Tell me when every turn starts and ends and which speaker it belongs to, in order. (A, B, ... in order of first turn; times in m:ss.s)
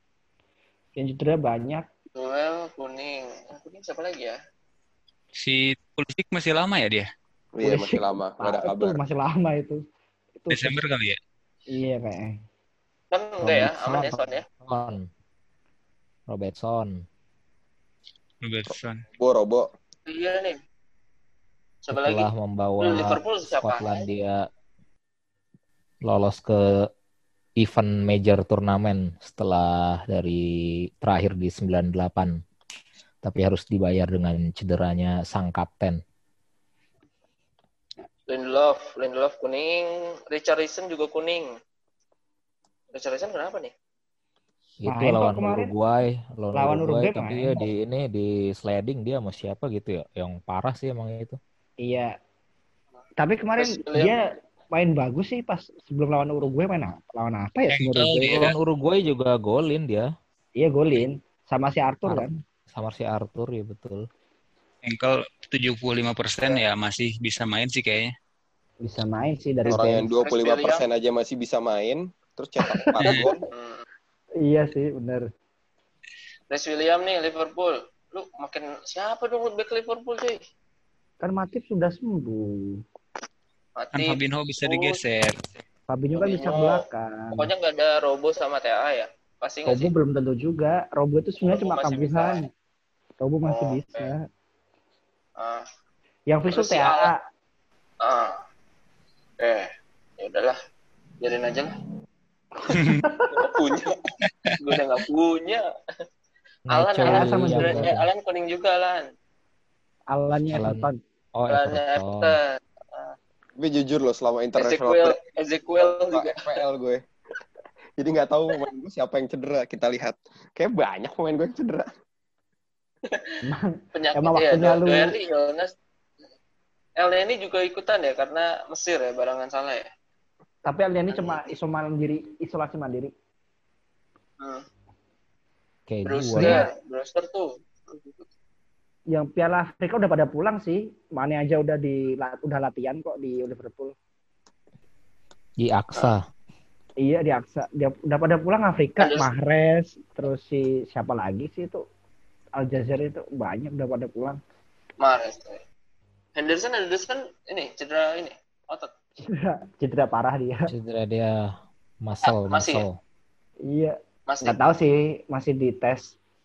0:01.0-0:01.9 A
0:02.2-0:04.4 B
0:05.4-0:07.1 C
0:07.6-0:09.0 D
0:07.6-0:09.8 A
0:10.4-0:10.8 A
0:10.5-0:11.2 C
0:11.7-0:12.4 A
0:13.1-0:14.4 B
0:13.4-0:15.1 E
0:16.3-0:17.0 E
0:18.4-0:19.0 C
0:19.2-0:19.7 D
0:20.1-0:20.6 B
0:21.8-0:22.3 B
0:21.9-0:24.4 E
0:22.8-0:24.1 B
0:26.0-0:26.9 E
0:27.6-0:30.4 E
0:31.0-0:32.4 E
0:33.2-0:36.0 E
0:38.3-0:41.5 B
0:42.9-0:43.7 B
0:44.8-0:51.4 E
0:44.9-0:45.7 A
0:46.6-0:47.7 A
0:51.8-0:52.1 A
0:53.2-0:58.5 A
0:53.6-0:54.1 B
0:57.7-0:58.6 C
0:58.4-1:00.1 E
1:00.6-1:02.4 A
1:02.1-1:04.1 E
1:04.8-1:08.1 C
1:08.8-1:10.1 A
1:09.7-1:13.4 D
1:10.2-1:10.8 B
1:12.7-1:13.8 B
1:14.4-1:15.3 A
1:16.5-1:20.4 B
1:21.2-1:22.8 A
1:23.8-1:25.0 B
1:24.0-1:25.4 C
1:25.9-1:27.5 A
1:26.1-1:29.9 B
1:29.7-1:32.5 A
1:31.4-1:32.4 B
1:33.2-1:34.2 A
1:33.5-1:34.1 B
1:35.4-1:35.6 B
1:36.3-1:37.2 A
1:36.5-1:37.1 B
1:38.0-1:38.3 B
1:39.4-1:39.7 B
1:40.2-1:40.6 B
1:41.2-1:41.8 B
1:42.6-1:43.5 A
1:42.7-1:43.0 C
1:43.3-1:44.0 B
1:44.6-1:45.6 B
1:46.7-1:49.1 B
1:46.7-1:48.0 E
1:47.0-1:48.0 A
1:50.1-1:51.0 A
1:50.5-1:52.4 E
1:51.5-1:52.4 B
1:53.6-1:55.2 D
1:54.6-1:56.6 B
1:55.8-1:57.0 D
1:58.0-2:01.9 D
2:03.1-2:03.4 B
2:03.4-2:05.2 A
2:03.9-2:05.7 B
2:07.0-2:09.9 B
2:10.6-2:13.1 A
2:11.1-2:11.5 B
2:14.4-2:14.7 B
2:15.9-2:16.6 E
2:16.1-2:18.3 B
2:16.4-2:16.7 A
2:19.1-2:24.0 A
2:25.6-2:26.2 E
2:27.0-2:31.8 A
2:29.0-2:29.3 B
2:32.6-2:34.4 A
2:35.0-2:35.6 B
2:36.4-2:38.9 B
2:39.2-2:40.7 A
2:40.7-2:43.0 E
2:42.2-2:42.8 B
2:43.7-2:46.1 A
2:44.3-2:44.6 B